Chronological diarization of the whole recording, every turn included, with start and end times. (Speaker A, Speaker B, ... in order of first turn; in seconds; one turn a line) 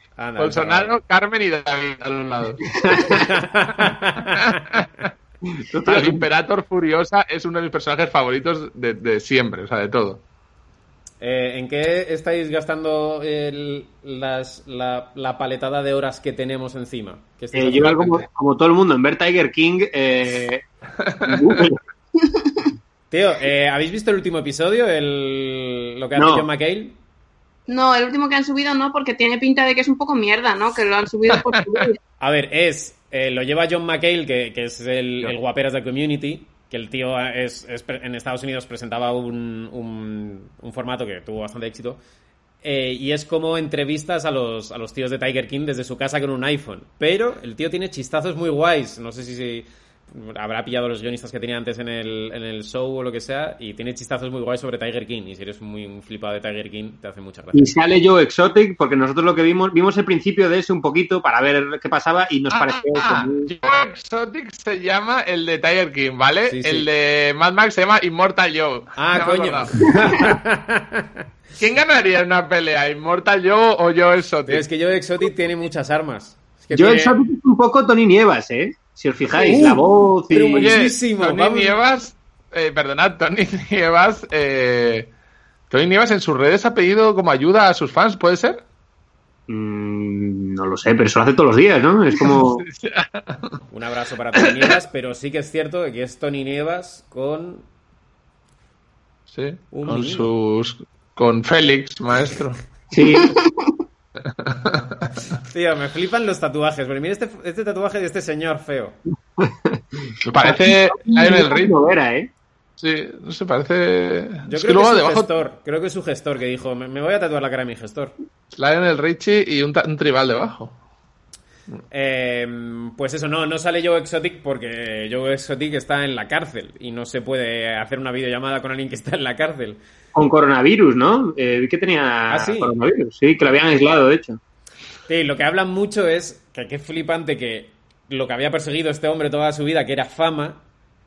Speaker A: 0.2-0.9
Speaker B: 0.4-2.8
Speaker C: 2.7-3.3
Speaker A: 3.0-4.8
Speaker B: 4.3-5.1
Speaker C: 5.6-6.2
Speaker B: 5.8-10.2
Speaker A: 11.2-18.2
Speaker C: 17.5-20.6
Speaker B: 21.0-21.6
Speaker C: 21.2-21.8
Speaker A: 23.1-27.0
Speaker C: 26.2-26.5
Speaker D: 27.7-32.0
Speaker B: 31.3-31.9
Speaker A: 32.2-42.0
Speaker A: 42.6-57.8
Speaker C: 57.5-63.5
Speaker B: 62.5-69.9
Speaker A: 66.5-66.9
Speaker A: 69.0-71.2
Speaker C: 69.9-70.3
Speaker B: 71.6-74.6
Speaker A: 74.5-77.2
Speaker C: 76.7-80.8
Speaker A: 79.4-81.8
Speaker B: 80.5-85.1
Speaker B: 85.7-88.6
Speaker C: 89.5-92.7
Speaker B: 92.2-93.6
Speaker A: 93.7-97.7
Speaker B: 94.4-94.7
Speaker B: 99.3-102.6
Speaker A: 99.7-100.3
Speaker C: 102.9-103.4
Speaker D: 103.2-103.7
Speaker B: 104.2-105.2
Speaker A: 105.5-109.0
Speaker C: 109.4-112.3
Speaker B: 110.2-111.8
Speaker B: 112.8-115.3
Speaker A: 114.5-118.1
Speaker B: 118.5-120.8
Speaker A: 121.9-129.8
Speaker C: 130.2-134.4
Speaker A: 132.3-132.7
Speaker A: 135.1-140.6